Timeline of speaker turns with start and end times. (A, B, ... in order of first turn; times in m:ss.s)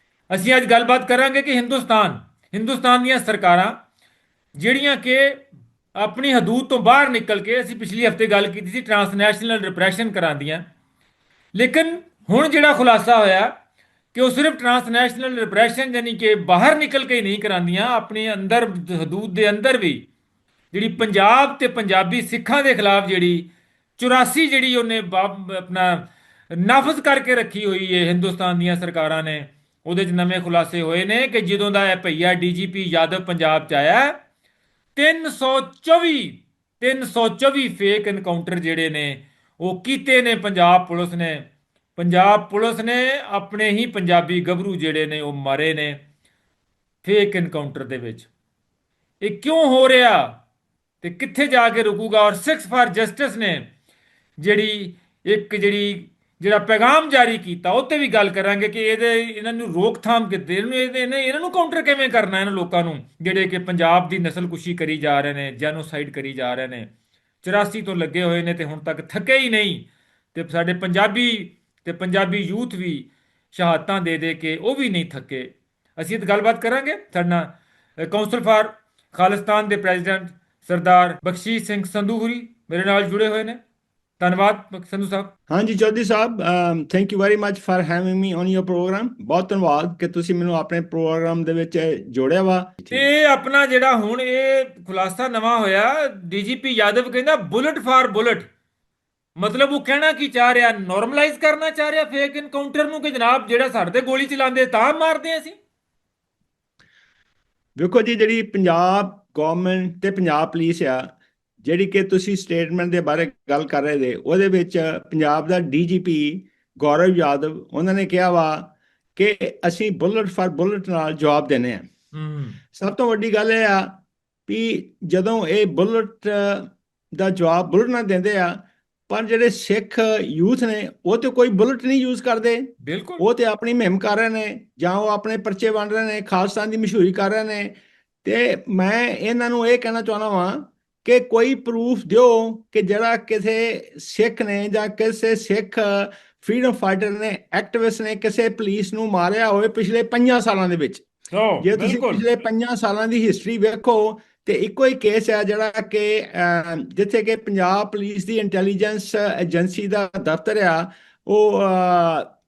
0:00.3-0:03.7 A
0:04.5-0:05.4 A
0:06.0-0:10.6 A
0:11.5-0:13.5 A
0:14.1-0:20.1 A
0:20.7-0:34.2 A
0:34.9-0:46.0 A
0:47.0-0:48.3 A
0:49.2-0:50.4 A
0:51.0-0:53.7 A
0:54.4-1:06.9 A
1:07.4-1:23.6 A
1:24.2-1:25.3 A
1:25.5-1:33.0 B
1:32.9-1:38.5 A
1:39.4-1:45.6 A
1:47.8-2:01.9 B
2:02.1-2:02.6 A
2:02.7-2:31.0 B
2:12.8-2:13.2 A
2:31.3-2:32.3 A
2:31.6-2:42.3 B